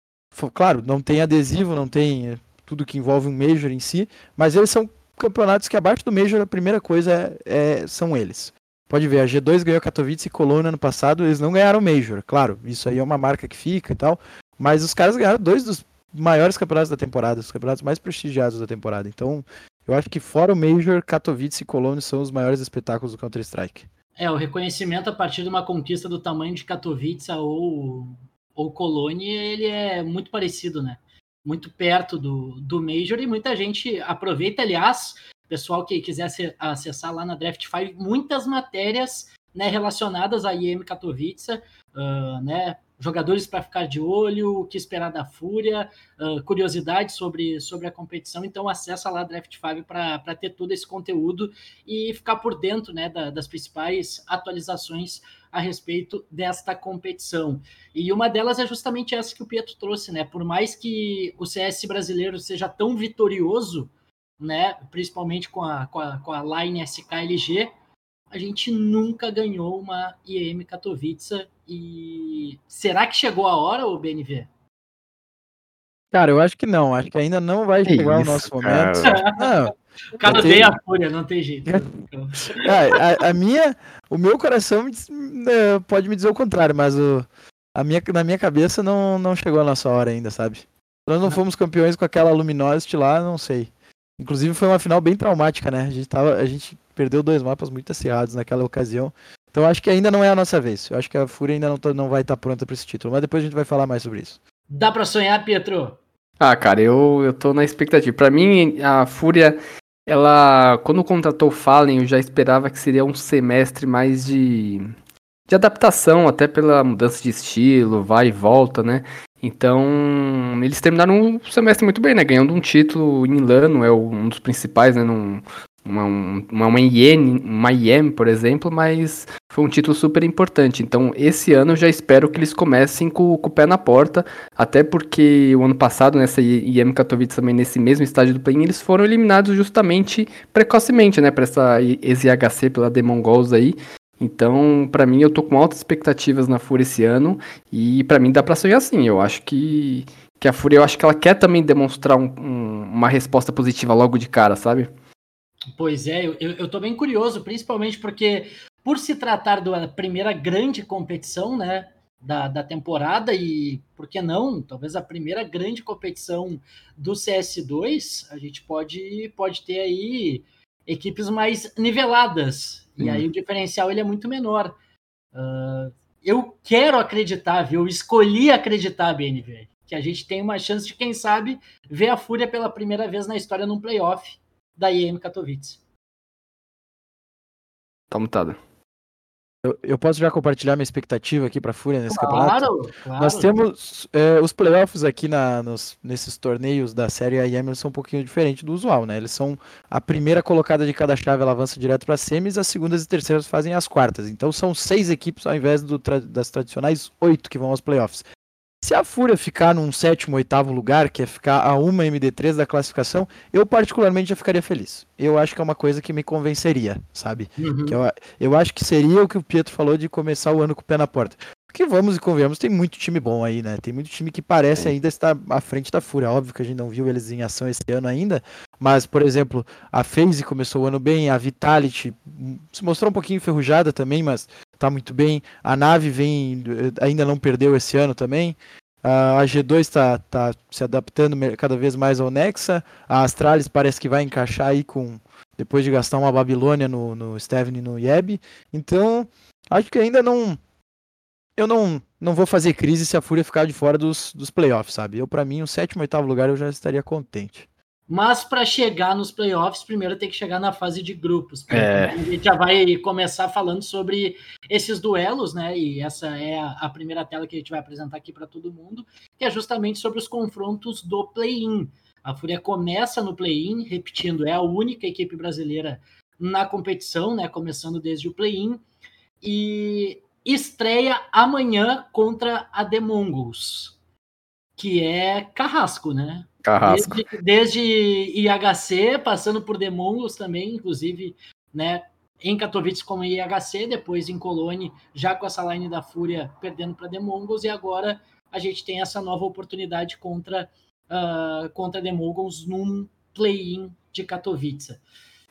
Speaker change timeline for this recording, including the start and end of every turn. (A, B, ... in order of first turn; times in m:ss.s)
0:00.3-0:23.9 A
0:24.2-1:07.7 B
1:08.3-1:14.5 B
1:16.1-1:20.7 A
1:17.8-1:19.2 C
1:19.0-1:19.5 B
1:20.2-1:23.0 B
1:20.3-1:20.6 C
1:22.6-1:44.4 A
1:44.7-1:46.0 B
1:46.4-1:54.9 C
1:55.5-2:34.9 C
2:35.8-2:54.7 B
2:53.0-2:53.3 C
2:55.3-3:05.8 B
3:08.1-3:08.6 C
3:09.6-3:28.2 A
3:12.1-3:13.5 B
3:28.8-4:10.6 A
3:37.6-3:38.0 B
4:11.6-4:17.7 A
4:18.1-4:38.8 B
4:21.7-4:22.2 C
4:39.4-4:44.0 B
4:44.8-5:05.0 B
4:46.6-4:47.2 C